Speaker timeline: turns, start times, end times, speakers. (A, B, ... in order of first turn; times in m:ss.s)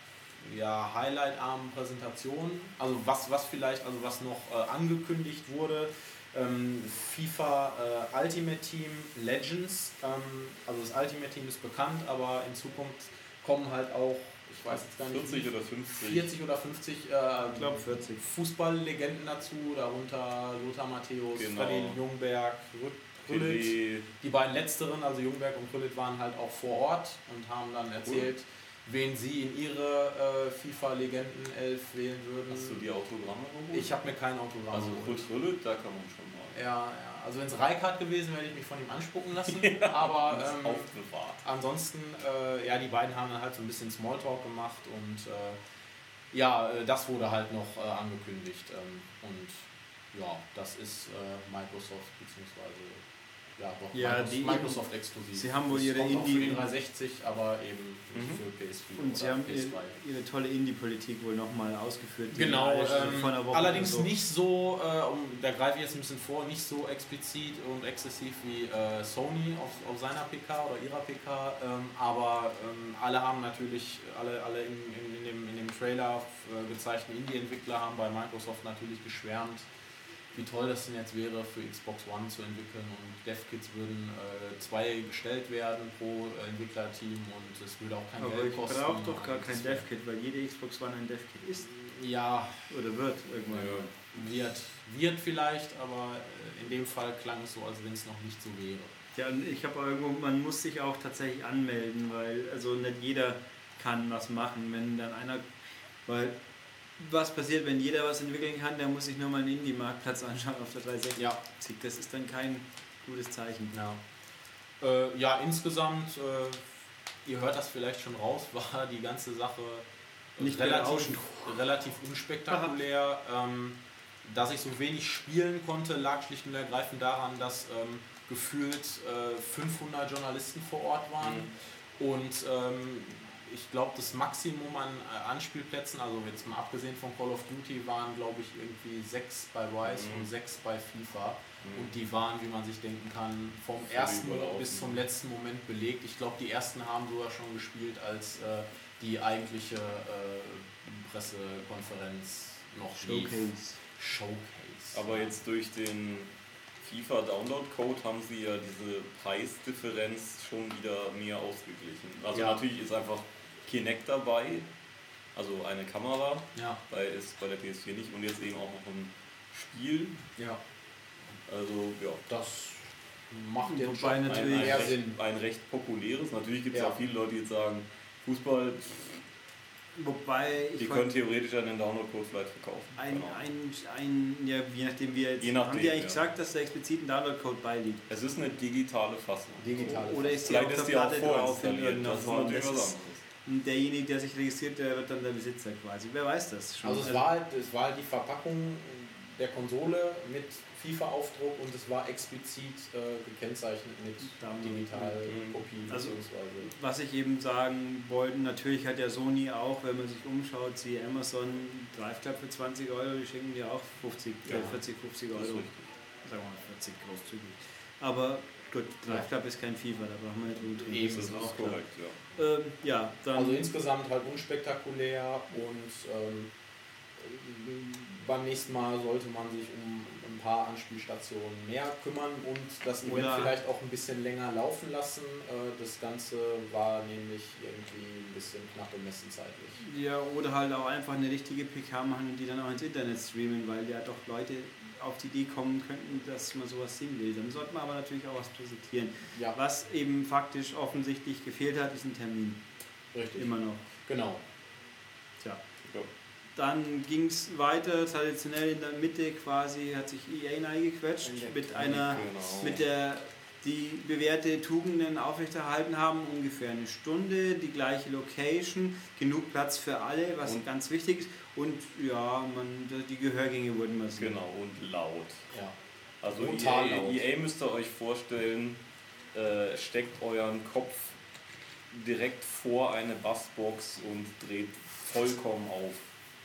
0:00.4-0:32.8 A
0:14.7-0:16.3 B
0:17.4-0:18.2 C
0:21.3-0:22.0 B
0:23.2-0:24.1 B
0:32.5-0:34.0 B
0:33.7-0:35.2 A
0:34.7-0:36.6 B
0:36.5-0:40.9 A
0:39.5-0:41.4 B
0:41.4-0:45.6 A
0:46.3-0:53.0 A
0:53.6-1:00.0 A
0:53.9-0:56.7 C
0:58.1-0:58.4 B
0:59.0-1:04.1 C
1:02.3-1:19.7 A
1:20.3-1:29.8 A
1:28.2-1:31.8 C
1:31.7-1:32.8 A
1:32.7-1:33.9 C
1:33.5-1:33.9 B
1:34.1-1:38.9 A
1:39.1-1:45.4 C
1:46.0-1:46.4 C
1:47.0-1:53.8 C
1:53.7-1:54.0 A
1:54.8-1:56.7 A
1:57.2-2:35.3 A
2:00.4-2:01.6 C
2:02.5-2:02.7 C
2:11.2-2:11.5 B
2:19.9-2:20.3 B
2:21.6-2:21.9 B
2:23.8-2:25.0 B
2:33.0-2:33.8 C
2:34.9-2:44.7 B
2:42.3-2:42.6 A
2:45.3-2:50.2 B
2:46.5-2:46.8 A
2:51.5-2:52.3 B
2:52.3-2:55.2 A
2:53.6-2:54.9 C
2:54.2-2:59.2 B
2:56.7-2:57.0 A
2:59.9-3:01.1 C
3:00.8-3:03.5 B
3:03.0-3:08.0 C
3:05.4-3:06.2 B
3:08.1-3:13.2 B
3:09.6-3:10.7 A
3:09.8-3:17.2 C
3:16.8-3:26.7 A
3:24.2-3:25.2 C
3:25.2-3:25.6 B
3:25.9-3:35.7 C
3:34.4-3:34.8 B
3:34.5-3:34.8 A
3:35.3-3:35.9 B
3:36.2-3:41.8 C
3:40.6-3:41.8 A
3:41.1-3:42.2 B
3:42.3-3:43.6 C
3:43.3-3:46.5 A
3:47.2-3:59.8 A
3:53.0-3:53.5 C
3:59.8-4:12.6 C
4:13.1-4:14.4 A
4:13.3-4:13.9 C
4:16.6-4:34.4 C
4:21.2-4:22.8 A
4:21.7-4:22.8 B
4:34.2-4:35.5 B
4:36.2-4:38.8 B
4:36.3-4:37.2 A
4:39.3-4:41.2 B
4:41.9-4:46.1 B